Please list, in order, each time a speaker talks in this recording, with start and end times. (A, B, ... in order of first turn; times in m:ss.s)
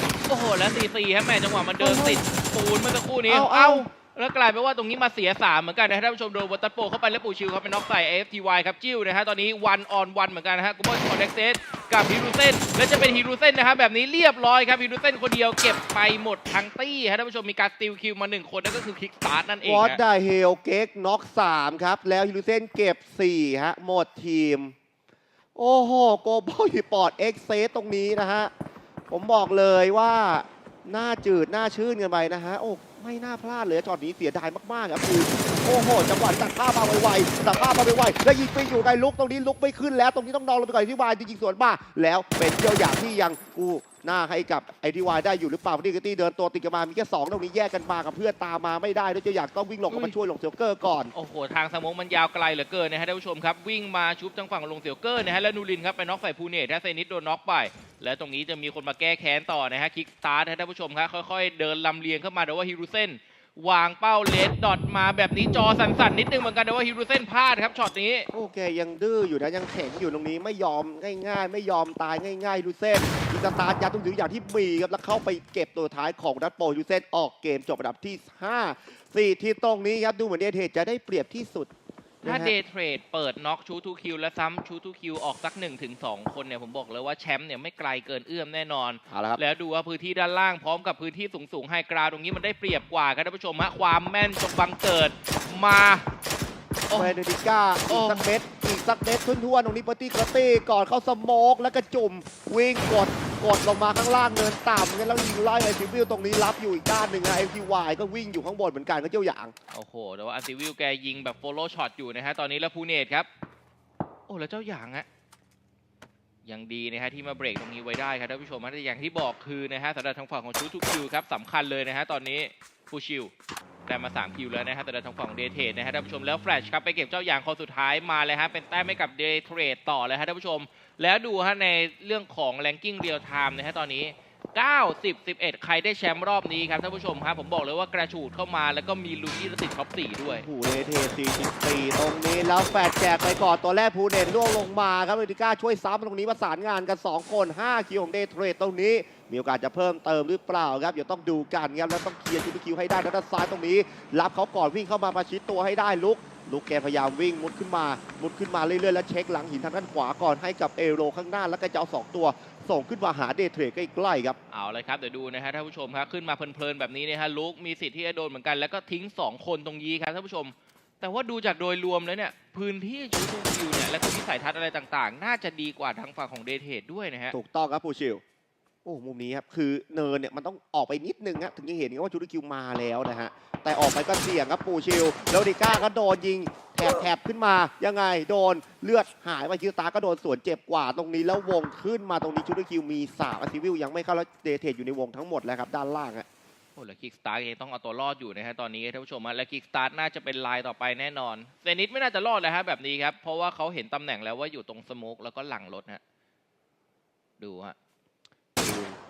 0:00.3-0:20.0 A
0:01.8-0:02.2 B
0:03.3-0:03.9 B
0:19.6-0:24.7 B
0:25.6-0:28.5 B
0:29.1-0:51.1 B
0:49.9-0:50.2 A
0:51.1-1:08.3 A
1:08.3-1:21.7 B
1:22.2-1:22.5 B
1:22.2-1:36.0 A
1:29.1-1:29.4 B
1:36.9-1:37.2 A
1:36.9-1:49.6 B
1:37.9-1:38.3 A
1:49.7-1:53.3 A
1:54.3-1:55.1 A
1:56.4-2:03.3 A
2:03.9-2:20.5 A
2:20.2-2:44.4 B
2:44.5-2:57.3 A
2:57.3-2:58.2 B
2:58.8-3:16.2 B
3:16.8-3:26.0 A
3:27.4-3:27.8 A
3:28.6-3:29.0 B